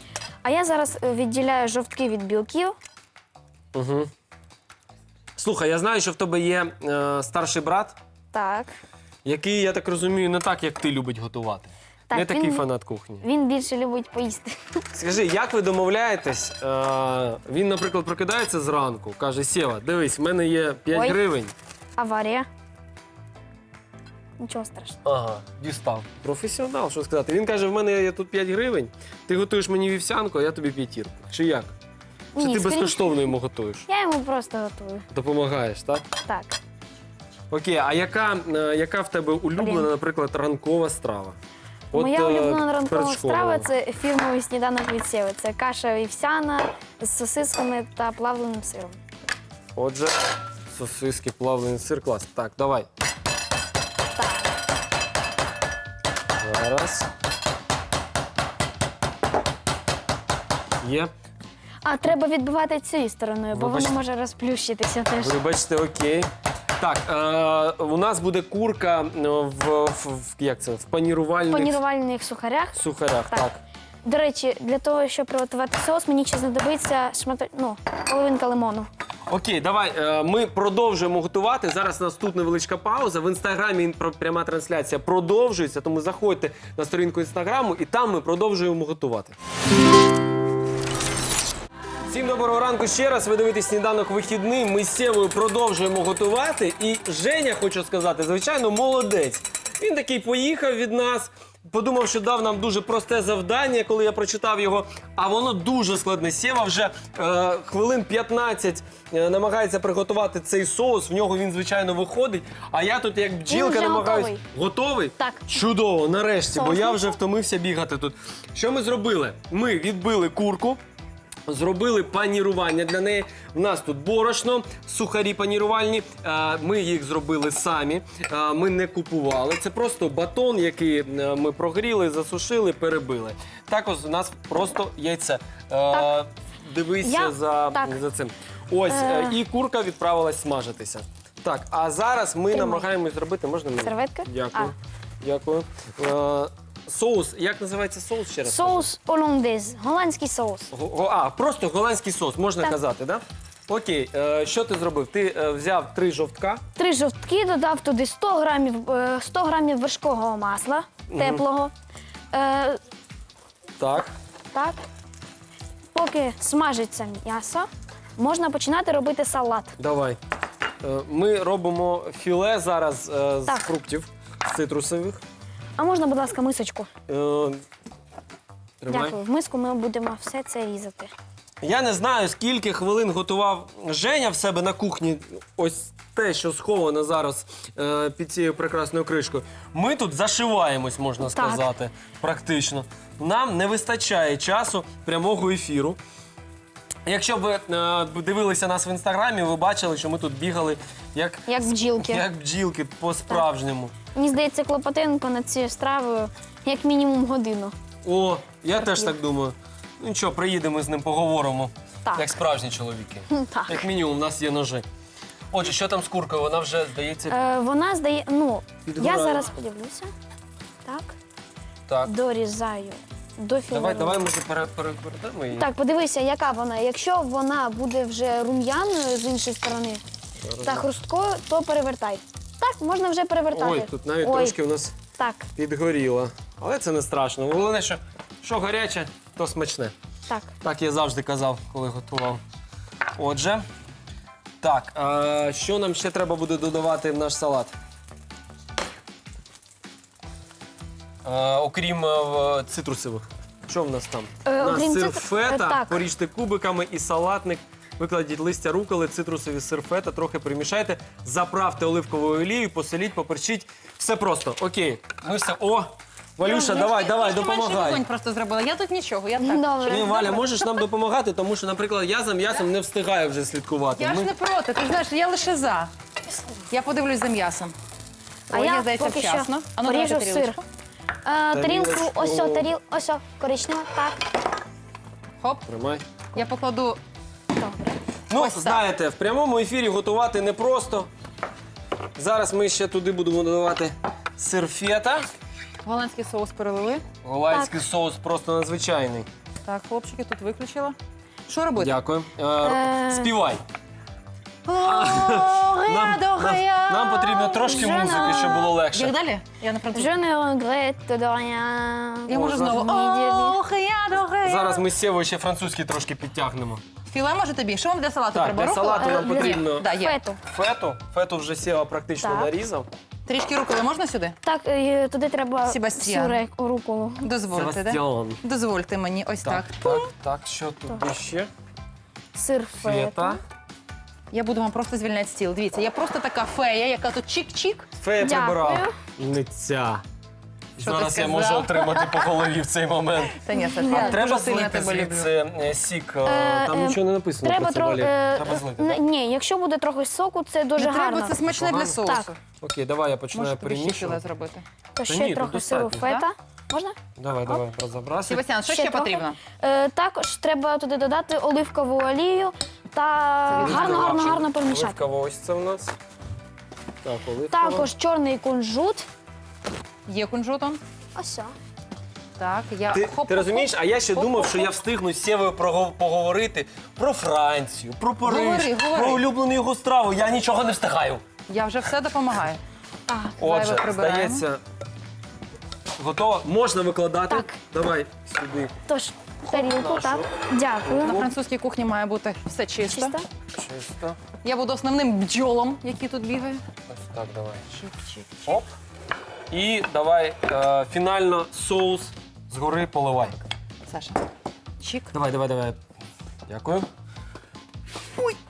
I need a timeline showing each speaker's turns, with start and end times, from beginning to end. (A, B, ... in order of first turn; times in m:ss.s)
0:00.4-0:02.8 A
0:03.7-0:04.1 B
0:05.4-0:08.0 B
0:08.3-0:08.7 A
0:09.2-0:13.2 B
0:12.1-0:12.6 A
0:13.2-0:14.8 A
0:14.9-0:21.5 B
0:20.9-0:21.2 A
0:22.0-0:22.5 A
0:24.4-0:25.0 A
0:25.0-0:31.7 B
0:32.3-0:33.0 A
0:32.4-0:33.9 B
0:33.9-0:35.0 A
0:35.1-0:36.0 B
0:36.2-0:36.6 A
0:37.5-0:41.4 B
0:39.6-0:39.9 A
0:41.9-0:43.7 B
0:41.9-0:49.0 A
0:49.8-0:50.2 B
0:50.7-0:52.9 B
0:54.1-0:54.5 A
0:56.4-0:57.1 B
1:00.8-1:01.1 B
1:01.8-1:05.4 A
1:03.5-1:04.0 B
1:05.2-1:06.3 B
1:06.8-1:11.8 B
1:11.4-1:13.5 A
1:12.7-1:13.6 B
1:14.0-1:18.9 A
1:19.3-1:29.4 B
1:32.1-2:00.8 B
1:53.5-1:54.4 A
1:55.2-1:55.6 A
1:56.5-1:57.2 A
2:01.5-2:28.9 B
2:17.0-2:17.9 A
2:18.9-2:19.4 A
2:22.5-2:22.9 A
2:23.8-2:24.7 A
2:28.4-2:30.7 A
2:30.7-2:36.6 B
2:36.8-2:41.7 A
2:41.1-2:41.4 B
2:42.3-2:42.8 A
2:43.8-2:44.1 B
2:44.5-2:44.8 A
2:45.9-2:49.8 A
2:49.8-2:50.2 B
2:50.8-2:55.2 B
2:55.8-2:56.9 A
2:57.1-2:57.6 B
2:58.8-2:59.2 B
2:58.9-3:01.1 A
3:01.6-3:16.0 B
3:11.3-3:11.7 A
3:17.0-3:23.9 B
3:21.4-3:22.2 A
3:24.1-3:27.7 A
3:28.0-3:34.8 B
3:28.8-3:29.1 A
3:32.0-3:32.3 A
3:33.3-3:33.9 A
3:35.5-3:37.4 B
3:37.3-3:40.1 A
3:38.9-3:39.5 B
3:40.8-3:41.1 A
3:41.9-3:42.1 B
3:42.0-3:44.3 A
3:43.7-3:45.7 B
3:45.5-3:50.0 A
3:50.4-3:50.9 B
3:50.6-3:54.6 A
3:53.5-3:54.9 B
3:55.1-3:55.4 A
3:55.5-3:59.9 B
4:00.3-4:00.5 A
4:00.6-4:02.4 B
4:03.2-4:03.6 B
4:04.6-4:07.7 B
4:11.2-4:28.0 B
4:14.4-4:16.0 A
4:26.4-4:30.3 C
4:29.4-4:30.4 A
4:29.8-4:34.3 B
4:33.9-4:35.9 C
4:36.7-4:37.7 C
4:38.5-4:40.6 A
4:38.5-4:40.6 C
4:41.2-4:44.2 A
4:41.5-4:42.7 B
4:45.4-4:45.6 C
4:45.7-4:46.1 B
4:46.3-4:47.0 C
4:47.5-4:48.0 A
4:48.3-4:51.1 B
4:48.3-4:48.8 C
4:52.2-4:55.3 B
4:55.8-4:57.0 C
4:57.2-4:59.3 B
4:59.6-5:01.0 C
5:01.5-5:01.9 C
5:01.8-5:03.6 B
5:02.6-5:03.3 A
5:04.6-5:08.3 C
5:04.8-5:09.1 B
5:07.6-5:08.8 A
5:08.9-5:10.1 C
5:09.9-5:13.6 A
5:12.3-5:14.8 C
5:12.3-5:12.8 B
5:14.4-5:16.8 B
5:17.0-5:20.2 C
5:18.3-5:22.9 B
5:18.9-5:20.4 A
5:22.2-5:22.5 A
5:23.2-5:24.4 C
5:24.4-5:27.3 A
5:25.6-5:26.4 C
5:27.2-5:30.0 C
5:27.5-5:28.4 B
5:29.4-5:31.5 B
5:32.3-5:33.4 A
5:32.8-5:33.4 B
5:34.3-5:37.9 C
5:38.0-5:40.0 B
5:38.2-5:38.9 A
5:40.8-5:49.0 B
5:40.8-5:42.3 C
5:43.4-5:45.3 C
5:43.6-5:44.1 A
5:46.2-5:51.4 A
5:50.8-5:52.4 C
5:51.4-5:52.0 B
5:52.0-5:52.3 A
5:52.6-5:54.2 B
5:53.3-5:54.6 C
5:54.9-5:57.0 A
5:55.0-5:56.1 B
5:56.0-5:56.2 C
5:57.2-5:58.4 B
5:58.2-5:59.4 C
5:58.6-6:05.0 A
6:03.6-6:05.9 B
6:07.0-6:07.9 B
6:07.5-6:09.0 A
6:10.0-6:10.8 C
6:11.1-6:11.5 A
6:12.4-6:14.7 C
6:12.9-6:21.2 B
6:18.2-6:19.2 C
6:21.5-6:22.6 C
6:23.1-6:23.4 A
6:23.4-6:24.4 C
6:23.4-6:24.6 B
6:26.0-6:28.7 B
6:27.3-6:27.5 A
6:28.9-6:31.3 A
6:29.5-6:30.3 B
6:30.8-6:31.3 B
6:31.0-6:33.2 C
6:32.8-6:33.2 A
6:33.5-6:34.2 B
6:34.4-6:36.6 C
6:36.9-6:37.7 B
6:37.7-6:38.6 C
6:39.5-6:43.4 B
6:43.9-6:44.2 C
6:44.8-6:45.1 C
6:45.1-6:45.8 B
6:46.5-6:46.9 B